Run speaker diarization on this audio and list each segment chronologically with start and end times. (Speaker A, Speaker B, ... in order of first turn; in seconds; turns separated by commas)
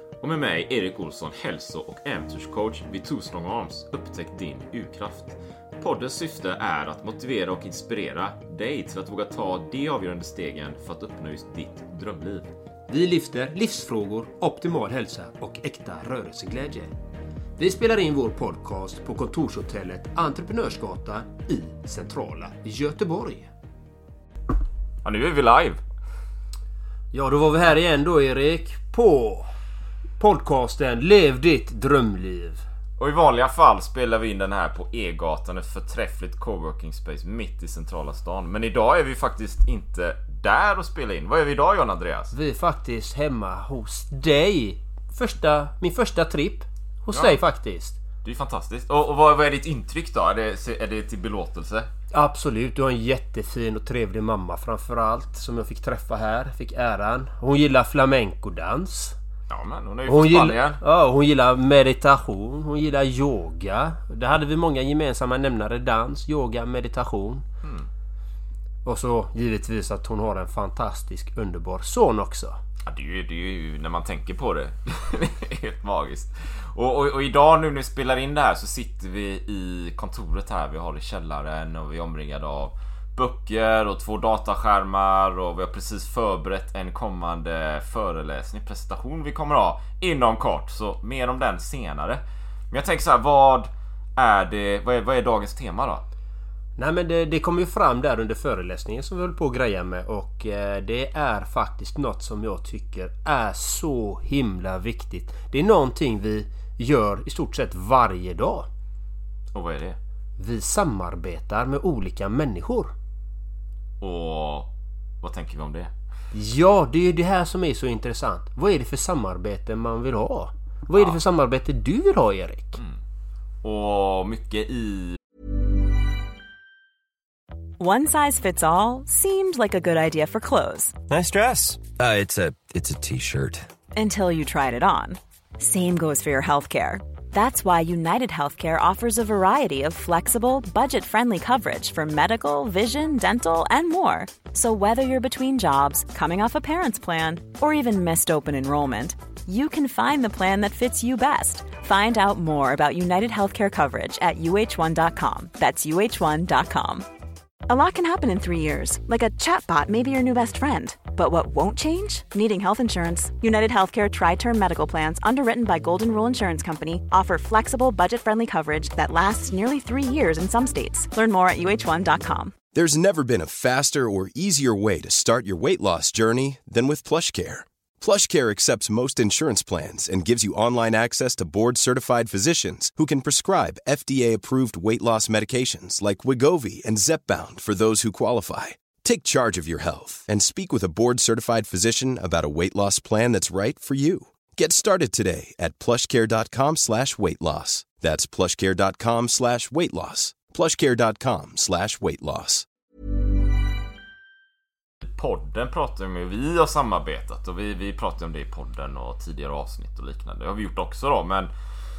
Speaker A: 0.2-12.5, Speaker B: 12.9-16.9, Speaker B: 17.6-23.5, Speaker A: 25.0-25.8, Speaker B: 27.1-29.5, Speaker B: 30.2-32.6, Speaker A: 33.0-42.3, Speaker B: 42.3-48.0, Speaker A: 47.1-47.4, Speaker A: 48.2-51.9, Speaker B: 52.1-59.2, Speaker A: 59.5-60.8, Speaker B: 60.1-67.5, Speaker B: 68.8-72.6, Speaker A: 72.8-96.0, Speaker B: 96.8-108.7, Speaker A: 109.5-110.0, Speaker B: 110.4-112.9, Speaker A: 114.0-115.9, Speaker B: 116.3-122.8, Speaker A: 123.6-125.2, Speaker C: 127.8-131.0, Speaker D: 131.1-133.7, Speaker C: 133.9-157.1, Speaker C: 157.7-172.5, Speaker E: 172.7-202.7, Speaker A: 205.0-211.5